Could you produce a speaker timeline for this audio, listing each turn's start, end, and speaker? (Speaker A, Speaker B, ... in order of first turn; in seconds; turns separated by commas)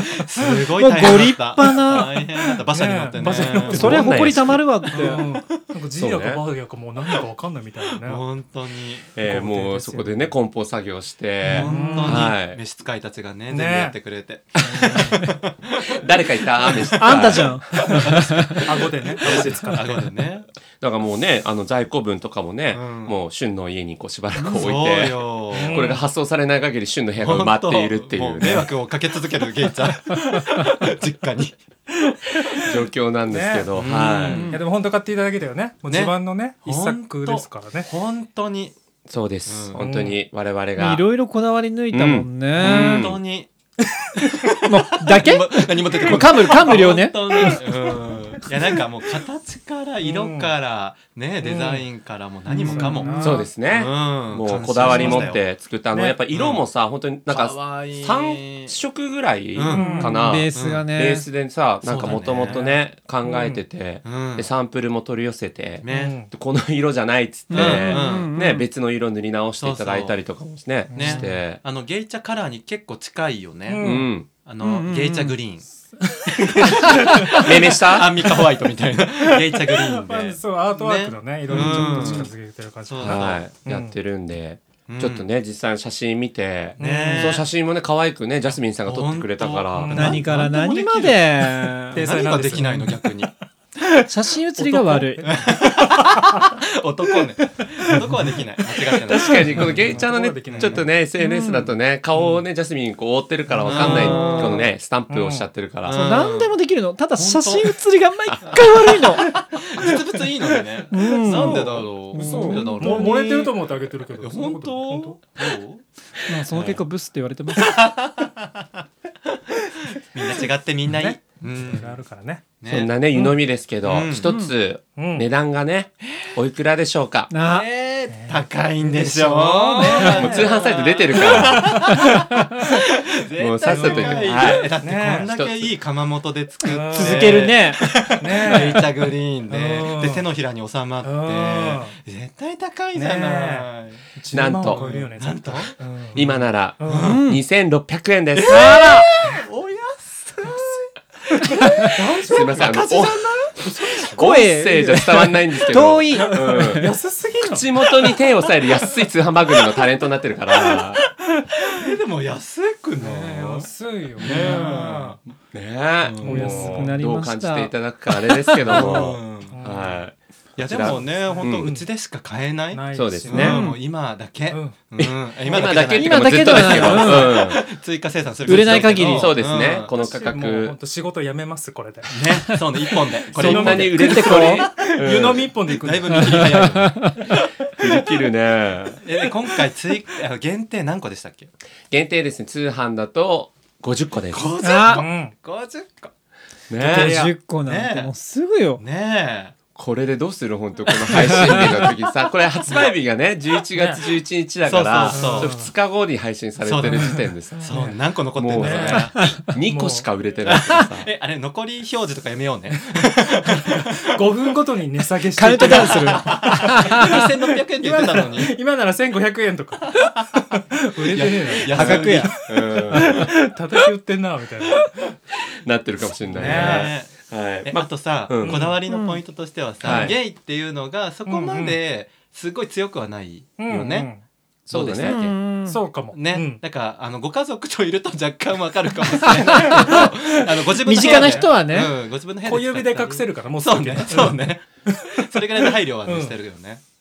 Speaker A: 0.2-4.1, Speaker B: 0.8-2.2, Speaker C: 2.7-4.2, Speaker B: 3.7-5.2, Speaker D: 3.7-4.6, Speaker C: 4.9-8.2, Speaker D: 6.0-6.4, Speaker A: 8.0-9.1, Speaker D: 9.1-12.6, Speaker C: 9.2-10.3, Speaker C: 11.4-12.3, Speaker A: 11.5-16.0, Speaker C: 13.5-13.9, Speaker C: 14.6-15.3, Speaker D: 14.7-15.2, Speaker D: 15.9-17.9, Speaker A: 16.6-20.4, Speaker B: 16.9-18.6, Speaker C: 18.6-20.1, Speaker D: 20.8-28.7, Speaker A: 22.7-23.2, Speaker A: 24.4-25.9, Speaker C: 25.5-26.0, Speaker A: 27.2-31.5, Speaker C: 31.9-37.9, Speaker D: 32.6-34.5, Speaker A: 33.8-34.6, Speaker A: 35.9-38.7, Speaker D: 39.1-41.0, Speaker A: 39.5-39.9, Speaker C: 39.8-40.2, Speaker B: 40.8-43.0, Speaker D: 41.9-43.2, Speaker A: 42.6-43.5, Speaker C: 44.2-44.7, Speaker A: 44.2-55.4, Speaker B: 44.6-47.6, Speaker C: 46.1-46.8, Speaker C: 47.3-48.8, Speaker C: 50.0-50.5, Speaker C: 51.4-51.9, Speaker C: 52.5-53.5, Speaker B: 52.6-53.2, Speaker D: 53.2-71.6, Speaker C: 54.8-55.3, Speaker A: 56.3-56.6, Speaker A: 57.3-58.7, Speaker A: 59.5-60.8, Speaker C: 59.7-60.3, Speaker B: 59.8-61.2, Speaker A: 61.8-64.5, Speaker A: 65.8-66.2, Speaker C: 65.9-66.3, Speaker B: 67.5-68.6, Speaker A: 67.5-68.3, Speaker A: 69.6-70.2, Speaker C: 70.9-71.3, Speaker A: 70.9-75.6, Speaker C: 73.7-74.1, Speaker D: 73.8-74.3, Speaker B: 74.6-75.4, Speaker C: 76.0-77.7, Speaker A: 76.3-82.3, Speaker B: 76.8-77.4, Speaker D: 77.3-78.1, Speaker C: 78.2-78.5, Speaker C: 79.2-84.0, Speaker D: 81.5-81.9, Speaker A: 82.9-83.4, Speaker D: 83.0-90.2, Speaker A: 84.9-85.2, Speaker C: 86.8-87.4, Speaker A: 86.8-87.5, Speaker A: 88.8-93.3, Speaker C: 89.7-90.3, Speaker B: 89.9-92.2, Speaker C: 91.9-93.2, Speaker B: 94.0-95.2, Speaker C: 94.6-96.5, Speaker A: 95.2-100.8, Speaker C: 97.6-100.9, Speaker D: 99.1-106.0, Speaker B: 101.2-101.7, Speaker C: 102.2-102.4, Speaker C: 103.5-104.5, Speaker A: 103.6-104.7, Speaker B: 103.8-104.6, Speaker C: 105.1-105.5, Speaker A: 105.9-106.5, Speaker B: 105.9-109.4, Speaker A: 107.2-107.8, Speaker A: 108.4-113.5, Speaker B: 110.9-113.5, Speaker C: 111.1-115.2, Speaker A: 114.2-115.8, Speaker B: 116.3-117.8, Speaker A: 116.5-116.8, Speaker A: 117.5-118.6, Speaker A: 119.9-122.0, Speaker C: 120.9-122.4, Speaker A: 122.6-122.9, Speaker D: 122.7-127.3, Speaker A: 123.8-124.3, Speaker B: 124.2-124.5, Speaker C: 125.0-125.2, Speaker B: 127.3-127.7, Speaker A: 127.4-144.0, Speaker C: 128.1-130.4, Speaker B: 129.8-130.1, Speaker D: 130.1-131.7, Speaker C: 131.4-132.4, Speaker D: 133.4-134.7, Speaker C: 133.6-135.3, Speaker D: 135.3-135.7, Speaker C: 136.6-137.5, Speaker B: 136.9-137.8, Speaker C: 138.2-140.3, Speaker C: 141.0-141.9, Speaker C: 142.9-147.2, Speaker D: 144.3-144.8, Speaker A: 144.6-146.3, Speaker D: 146.1-149.0, Speaker A: 146.8-147.2, Speaker B: 147.0-147.4, Speaker A: 148.3-152.9, Speaker B: 148.5-149.1, Speaker C: 150.4-154.3, Speaker D: 152.3-153.3, Speaker A: 153.8-154.0, Speaker B: 154.1-156.9, Speaker D: 154.1-161.0, Speaker C: 156.1-158.2, Speaker C: 161.6-161.9, Speaker A: 161.7-165.2, Speaker C: 163.0-165.2, Speaker D: 165.5-171.7, Speaker A: 166.0-166.5, Speaker C: 166.2-166.9, Speaker B: 166.3-167.7, Speaker B: 168.5-169.1, Speaker A: 168.7-169.6, Speaker C: 169.5-170.0, Speaker A: 170.6-179.9, Speaker C: 170.8-171.8, Speaker C: 172.7-173.7, Speaker D: 172.9-173.6, Speaker B: 173.3-173.8, Speaker C: 174.5-174.8, Speaker D: 175.5-177.6, Speaker B: 175.8-177.5, Speaker B: 178.4-179.3, Speaker D: 178.6-180.7, Speaker C: 179.9-186.6, Speaker A: 182.1-184.6, Speaker D: 183.3-185.4, Speaker B: 183.8-184.7, Speaker A: 185.8-187.3, Speaker B: 186.1-187.2, Speaker D: 187.8-189.0, Speaker A: 189.0-191.5, Speaker D: 191.9-194.5, Speaker A: 194.3-196.1, Speaker B: 194.6-195.0, Speaker C: 194.8-195.3, Speaker D: 196.7-197.2, Speaker B: 196.8-198.8, Speaker C: 196.8-197.3, Speaker A: 197.6-198.1, Speaker A: 198.8-199.5, Speaker D: 199.7-207.7, Speaker A: 201.1-201.9, Speaker B: 201.1-201.8, Speaker C: 203.8-204.0, Speaker A: 204.7-205.5, Speaker C: 205.1-205.7, Speaker A: 206.6-209.2, Speaker C: 206.9-208.0, Speaker D: 208.3-211.1, Speaker C: 208.5-210.1, Speaker A: 210.4-214.4, Speaker C: 212.9-213.5, Speaker C: 214.1-225.1, Speaker B: 215.3-217.2, Speaker A: 215.6-218.5, Speaker A: 219.9-220.4, Speaker A: 221.0-222.4, Speaker B: 221.7-222.3, Speaker D: 221.8-223.3, Speaker D: 225.6-228.6, Speaker C: 226.2-226.9, Speaker A: 226.3-227.1, Speaker A: 227.7-234.1, Speaker C: 228.4-228.8, Speaker B: 228.9-229.2, Speaker D: 229.8-230.2, Speaker C: 229.9-230.1, Speaker C: 231.2-231.8, Speaker C: 233.6-234.2, Speaker D: 234.7-235.2, Speaker B: 234.7-235.8, Speaker A: 234.7-235.3, Speaker C: 235.7-236.6, Speaker A: 236.1-246.8, Speaker B: 239.2-240.1, Speaker C: 239.2-241.5, Speaker B: 240.8-241.9, Speaker C: 242.4-245.4, Speaker C: 246.0-246.3